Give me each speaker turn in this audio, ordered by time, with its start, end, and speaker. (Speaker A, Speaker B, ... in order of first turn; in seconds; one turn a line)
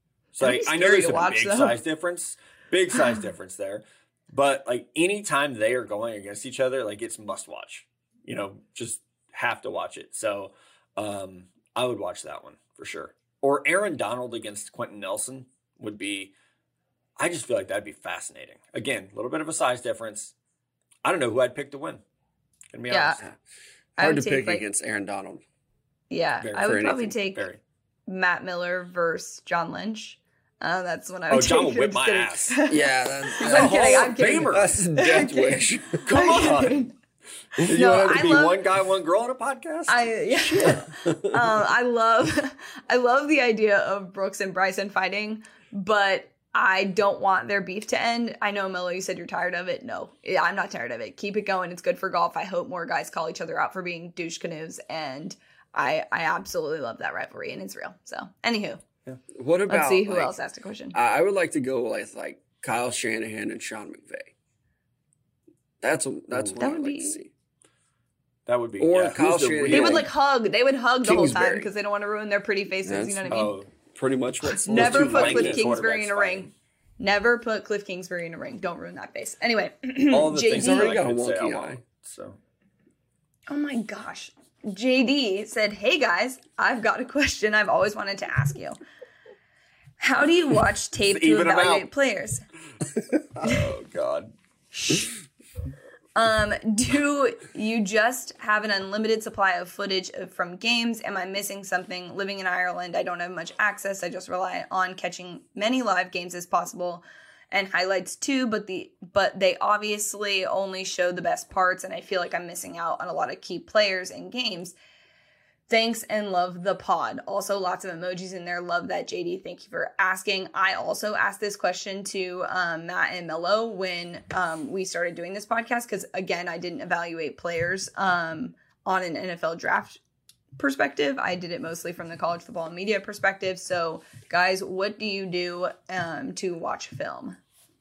Speaker A: 0.3-16.3
Speaker B: 0.4-1.8
Speaker A: 17.2-20.3
Speaker A: 21.1-22.0
Speaker A: 22.7-23.2
Speaker B: 22.9-23.2
Speaker B: 24.0-24.6
Speaker C: 24.0-25.4
Speaker B: 26.1-27.5
Speaker A: 26.4-27.6
Speaker C: 26.6-27.1
Speaker B: 28.1-32.8
Speaker A: 31.3-32.6
Speaker C: 32.7-36.1
Speaker B: 33.4-36.9
Speaker A: 33.4-34.7
Speaker A: 36.0-36.9
Speaker A: 37.6-40.9
Speaker B: 37.6-38.6
Speaker B: 39.9-58.8
Speaker C: 59.3-60.4
Speaker B: 59.7-61.0
Speaker C: 60.9-64.3
Speaker C: 65.8-67.3
Speaker A: 66.3-66.6
Speaker B: 66.6-67.2
Speaker A: 68.5-70.1
Speaker C: 68.8-70.1
Speaker B: 69.7-73.6
Speaker C: 71.0-71.7
Speaker C: 72.8-75.7
Speaker A: 73.3-73.7
Speaker B: 74.5-76.5
Speaker A: 74.7-76.5
Speaker B: 77.0-81.0
Speaker A: 80.1-82.4
Speaker C: 80.5-81.8
Speaker B: 83.5-88.8
Speaker B: 90.0-92.4
Speaker A: 91.0-91.9
Speaker A: 93.4-94.3
Speaker B: 93.4-93.7
Speaker B: 94.7-95.1
Speaker B: 96.2-114.7
Speaker B: 115.7-130.0
Speaker B: 130.6-137.4